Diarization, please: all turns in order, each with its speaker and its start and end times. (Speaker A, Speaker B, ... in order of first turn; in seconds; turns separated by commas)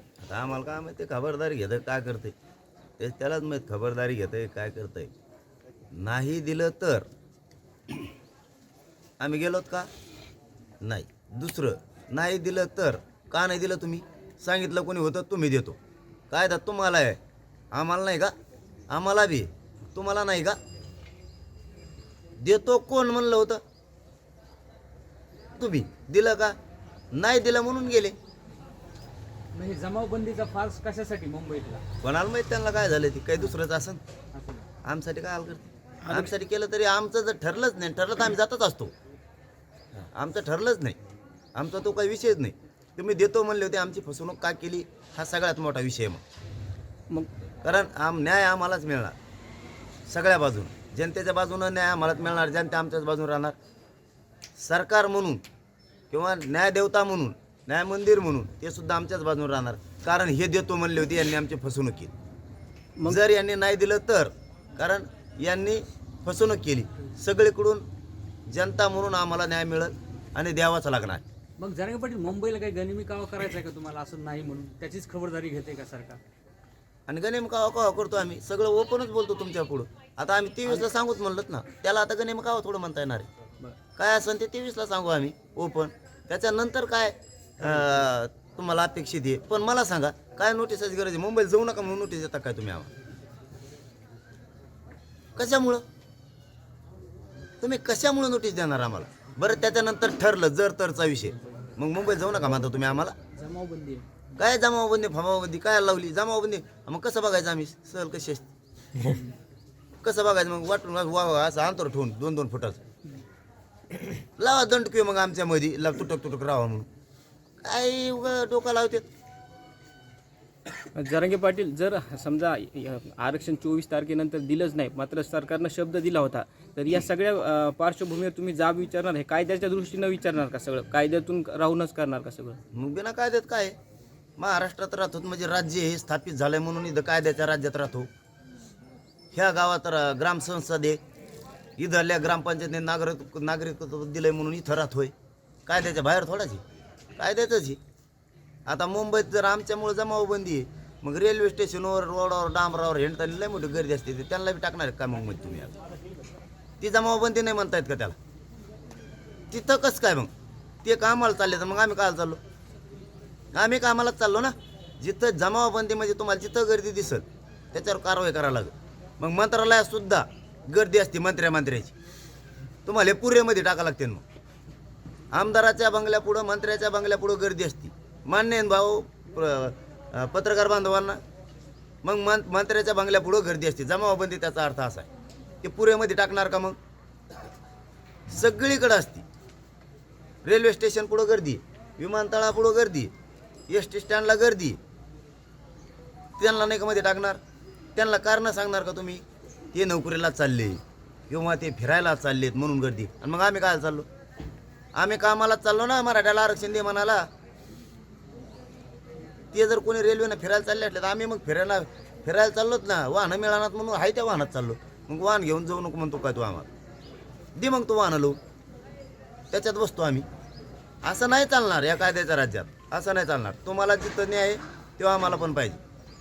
Speaker A: 0.2-2.4, Speaker A: 3.0-5.1, Speaker A: 6.0-7.1, Speaker A: 9.2-9.9, Speaker A: 10.8-15.8, Speaker A: 16.3-17.2, Speaker A: 17.7-18.3, Speaker A: 18.9-20.6, Speaker A: 22.4-23.6, Speaker A: 25.6-26.6, Speaker A: 27.1-28.1, Speaker B: 29.5-31.8, Speaker A: 32.0-34.0, Speaker B: 34.4-34.6, Speaker A: 34.9-38.9, Speaker C: 36.0-36.3, Speaker A: 40.0-41.0, Speaker A: 41.5-46.2, Speaker A: 47.6-49.2, Speaker A: 50.1-53.6, Speaker A: 54.6-55.4, Speaker A: 56.1-62.1, Speaker A: 63.0-67.8, Speaker A: 68.5-71.2, Speaker B: 71.6-76.2, Speaker A: 77.1-83.3, Speaker A: 84.0-92.9, Speaker A: 95.4-95.8, Speaker A: 97.6-103.2, Speaker B: 103.3-104.0, Speaker A: 104.4-108.5, Speaker B: 109.0-109.3, Speaker A: 110.0-112.8, Speaker A: 114.4-116.9, Speaker A: 117.6-119.1, Speaker C: 120.8-132.6, Speaker A: 132.7-133.8, Speaker A: 134.4-138.1, Speaker A: 139.3-141.0, Speaker A: 141.8-145.1, Speaker A: 145.7-146.6, Speaker A: 147.2-147.8, Speaker A: 148.7-155.7, Speaker A: 156.8-158.2, Speaker A: 159.5-160.3, Speaker A: 160.8-162.4, Speaker A: 163.5-171.9, Speaker A: 172.8-174.2, Speaker A: 175.3-181.2, Speaker A: 182.0-185.1, Speaker A: 185.6-186.8, Speaker A: 188.3-189.2, Speaker A: 190.4-193.1, Speaker A: 193.7-194.8, Speaker A: 196.4-197.4, Speaker A: 198.0-199.2, Speaker A: 199.7-204.1, Speaker A: 205.0-207.2, Speaker A: 209.5-216.7, Speaker A: 217.6-218.4, Speaker A: 219.5-220.3, Speaker A: 221.0-225.8